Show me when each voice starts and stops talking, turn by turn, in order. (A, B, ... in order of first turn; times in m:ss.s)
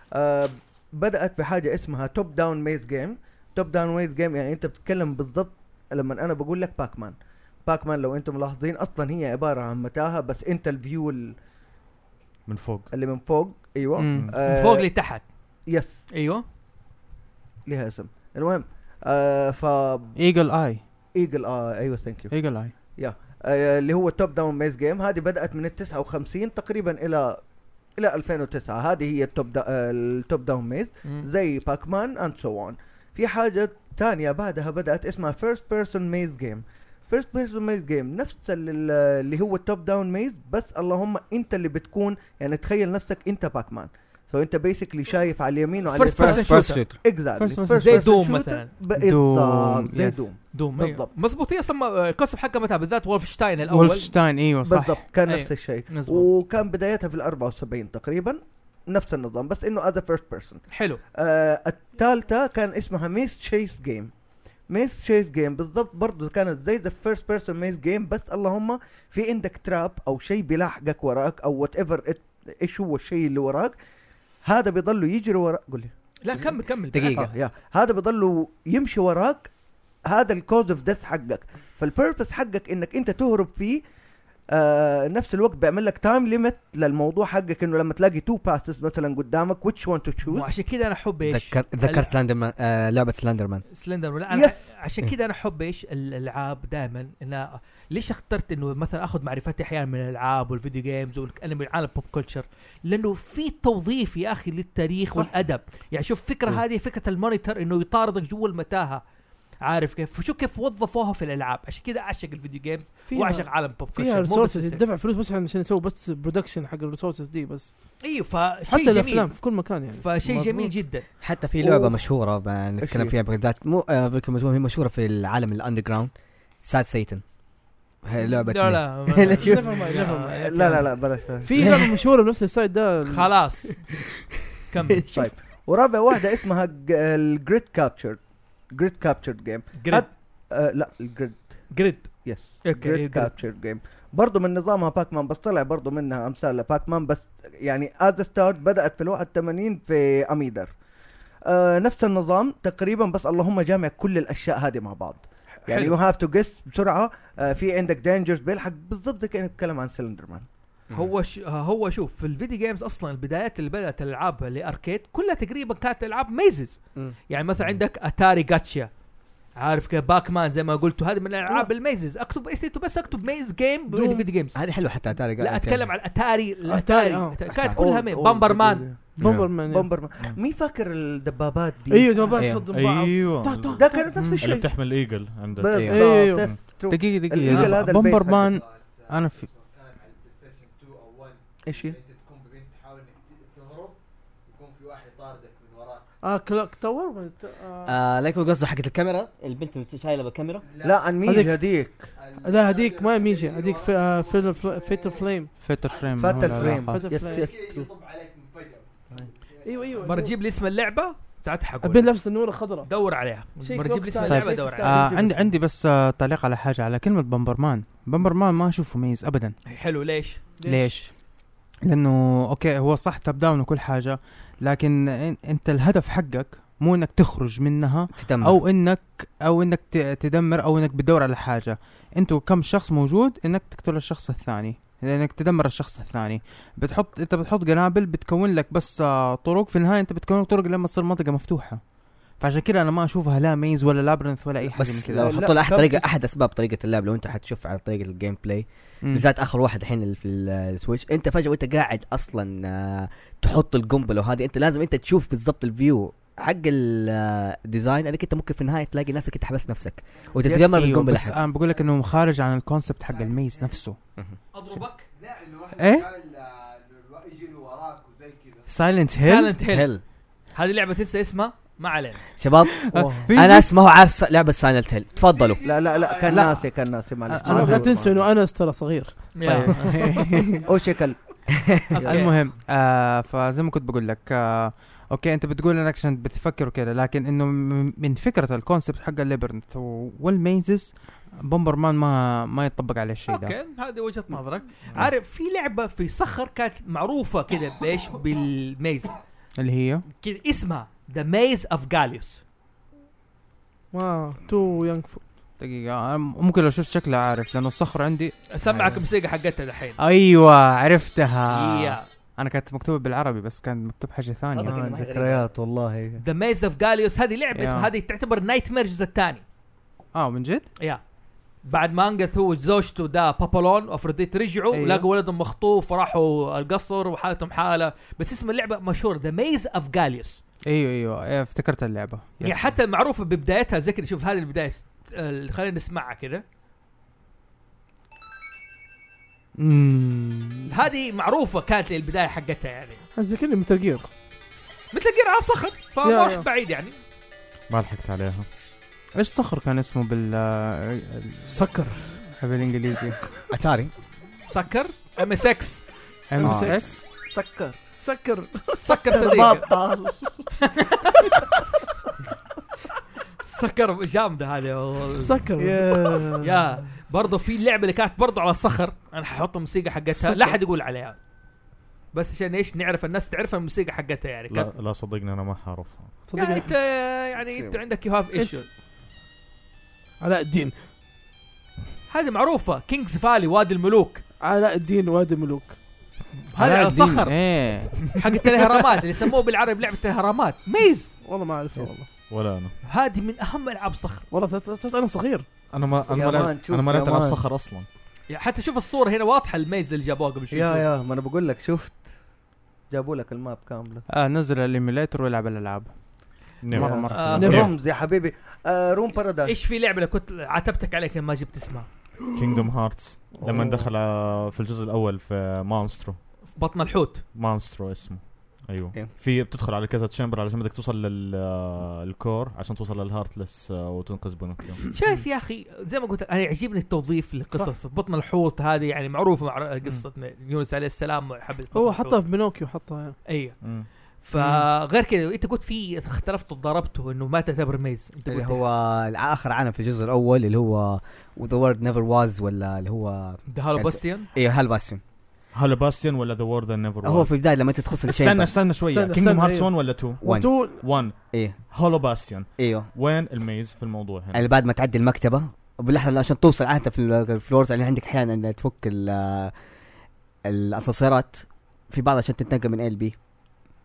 0:00.1-0:11.4 A
0:12.5-0:12.9 B
0:12.9-0:14.9 A
0:14.0-0:14.3 C
0:14.1-0:14.4 B
0:14.4-0:15.3 D
0:15.7-0:16.0 A
0:16.1-0:16.4 D
0:17.7-0:20.2 A
0:20.2-0:20.8 C
0:21.2-0:27.4 A
0:22.3-0:22.7 C
0:28.0-0:51.1 A
0:45.9-0:46.8 D
0:46.2-0:47.0 E
0:47.4-0:48.1 C
0:47.8-0:48.7 D
0:49.0-0:50.2 C
0:50.5-0:54.1 D
0:53.7-0:55.0 C
0:54.6-1:04.1 A
0:55.3-0:56.3 D
1:00.7-1:01.0 D
1:04.7-1:13.8 A
1:14.4-1:15.9 A
1:16.2-1:17.2 D
1:16.9-1:17.3 E
1:17.1-1:19.5 A
1:20.1-1:23.8 A
1:24.5-1:30.5 A
1:30.3-1:32.1 D
1:31.3-1:33.6 E
1:33.7-1:49.0 D
1:34.3-1:34.6 A
1:49.6-1:54.8 D
1:53.1-1:57.7 F
1:58.0-2:01.0 D
1:58.7-2:00.8 F
2:01.2-2:06.1 E
2:01.6-2:01.9 A
2:02.8-2:03.2 A
2:06.6-2:07.2 E
2:08.0-2:09.7 E
2:08.2-2:10.9 D
2:09.3-2:10.4 F
2:10.2-2:11.7 A
2:11.4-2:13.3 F
2:11.6-2:11.9 E
2:13.1-2:13.9 D
2:14.7-2:15.2 D
2:15.1-2:30.7 A
2:19.8-2:20.1 D
2:21.7-2:23.3 D
2:31.4-2:40.5 A
2:35.6-2:36.0 D
2:40.9-2:48.9 D
2:49.6-2:54.6 D
2:53.9-2:54.3 F
2:54.6-2:55.9 E
2:55.4-2:58.9 D
2:56.7-2:57.6 F
2:57.5-2:57.8 E
2:57.6-3:02.1 A
2:59.2-2:59.9 F
2:59.2-2:59.6 B
3:01.9-3:04.3 F
3:02.4-3:02.7 E
3:02.7-3:06.6 B
3:03.8-3:04.9 A
3:04.2-3:04.4 C
3:05.6-3:08.5 A
3:05.7-3:06.1 E
3:05.9-3:06.5 F
3:06.9-3:09.5 C
3:08.4-3:16.0 G
3:11.7-3:12.0 A
3:16.2-3:18.0 F
3:17.9-3:20.6 E
3:20.6-3:21.3 G
3:20.8-3:22.1 A
3:21.2-3:21.6 F
3:22.2-3:30.3 G
3:22.4-3:25.5 F
3:25.6-3:27.0 C
3:26.2-3:27.9 A
3:26.9-3:27.5 F
3:29.6-3:30.4 F
3:30.0-3:32.1 D
3:31.8-3:32.9 F
3:32.8-3:35.1 D
3:33.6-3:35.4 F
3:34.3-3:39.6 C
3:39.7-3:40.4 D
3:40.6-3:41.1 F
3:40.7-3:41.1 C
3:41.8-4:01.8 C
3:48.2-3:48.6 E
4:02.4-4:05.4 C
4:04.7-4:21.4 E
4:05.2-4:06.1 A
4:20.1-4:20.5 G
4:20.4-4:20.8 A
4:20.6-4:24.0 C
4:21.2-4:22.2 G
4:23.0-4:23.8 G
4:24.5-4:25.1 D
4:25.1-4:28.8 G
4:25.8-4:26.1 C
4:28.7-4:29.6 C
4:29.2-4:29.9 D
4:29.7-4:30.0 E
4:30.5-4:32.2 D
4:32.4-4:35.6 E
4:32.9-4:33.7 C
4:32.9-4:33.3 A
4:35.1-4:36.6 G
4:35.6-4:38.1 A
4:36.2-4:36.6 C
4:37.3-4:37.9 C
4:37.4-4:40.5 F
4:39.4-4:40.1 D
4:39.4-4:40.7 C
4:40.6-4:42.3 A
4:41.9-4:42.4 D
4:42.0-4:53.6 C
4:53.3-4:59.2 D
4:59.6-5:00.0 C
5:00.2-5:02.4 D
5:03.9-5:05.2 F
5:05.6-5:09.0 C
5:08.5-5:10.0 D
5:10.0-5:14.8 C
5:11.5-5:12.1 D
5:14.5-5:15.5 E
5:14.6-5:16.2 A
5:16.2-5:19.4 D
5:17.6-5:17.9 C
5:20.1-5:20.7 C
5:21.6-5:30.4 D
5:24.7-5:25.1 C
5:30.7-5:32.8 C
5:32.4-5:36.4 D
5:39.6-5:40.7 C
5:40.7-5:43.0 D
5:43.2-5:44.1 F
5:44.9-5:47.0 D
5:46.0-5:46.5 F
5:47.7-5:48.5 B
5:49.2-5:51.7 C
5:51.5-5:52.2 F
5:52.3-5:53.2 C
5:53.5-5:53.9 E
5:54.4-5:55.9 D
5:56.3-5:57.0 C
5:56.4-5:57.0 F
5:56.4-5:56.8 E
5:57.3-5:57.8 A
5:58.0-5:58.9 F
5:58.8-5:59.7 D
5:58.9-6:00.5 A
6:00.7-6:01.3 D
6:03.4-6:05.4 D
6:05.2-6:05.9 F
6:05.6-6:06.6 A
6:06.4-6:11.2 D
6:10.1-6:10.6 F
6:12.1-6:14.7 D
6:14.5-6:16.2 B
6:16.3-6:16.7 F
6:16.3-6:18.7 D
6:17.5-6:17.8 E
6:20.2-6:20.8 F
6:22.1-6:24.2 D
6:24.4-6:25.8 F
6:26.5-6:31.2 D
6:26.6-6:28.1 C
6:31.2-6:32.1 F
6:32.3-6:32.8 B
6:32.8-6:34.2 D
6:34.3-6:35.5 F
6:35.7-6:37.9 B
6:36.1-6:37.4 A
6:38.3-6:40.8 D
6:40.5-6:42.1 A
6:42.9-6:44.0 A
6:44.1-6:45.9 C
6:46.6-6:47.7 B
6:46.7-6:47.7 C
6:46.8-6:49.6 A
6:47.1-6:47.6 D
6:47.4-6:47.6 F
6:49.4-6:51.9 D
6:52.3-6:56.2 B
6:53.3-6:53.6 F
6:53.4-6:53.9 A
6:56.6-6:57.2 D
6:57.3-7:04.8 B
7:04.9-7:12.2 D
7:11.7-7:13.2 F
7:13.3-7:18.6 D
7:13.6-7:13.9 B
7:18.3-7:25.0 E
7:23.5-7:24.3 D
7:25.5-7:34.5 B
7:27.0-7:28.7 E
7:28.8-7:30.9 F
7:30.2-7:31.6 E
7:32.6-7:32.9 E
7:34.3-7:39.5 E
7:40.5-7:43.2 E